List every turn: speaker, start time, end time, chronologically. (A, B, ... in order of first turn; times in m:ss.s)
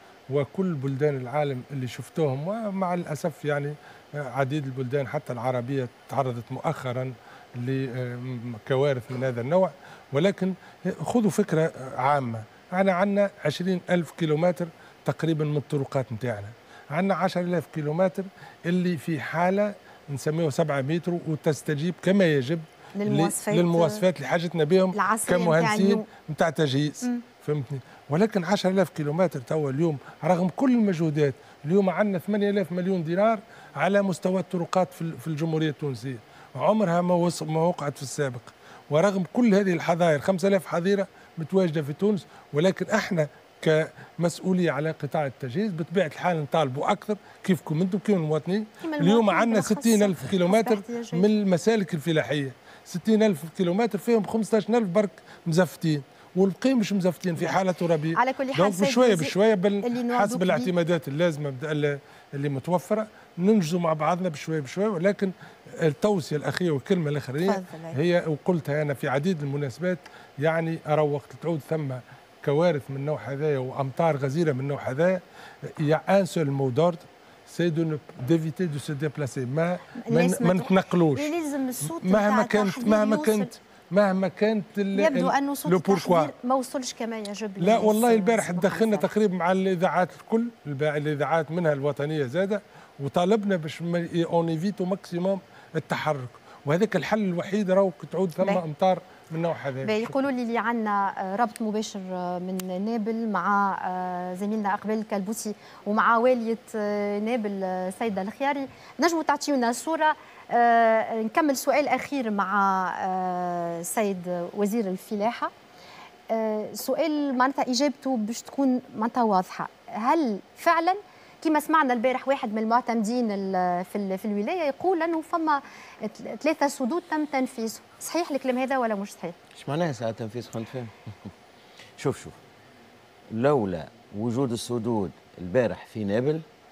0:00.3-1:21.3 A
0:23.0-0:24.0 B
0:24.9-0:26.0 B
0:48.8-0:51.3 B
0:58.1-1:00.7 B
1:07.4-1:08.0 B
1:20.0-1:23.5 B
1:21.8-1:26.3 A
1:24.9-1:29.1 B
1:27.6-1:40.1 A
1:39.8-1:55.5 B
1:56.3-2:09.3 B
2:09.5-2:11.3 C
2:12.0-2:12.4 C
2:13.3-2:16.4 C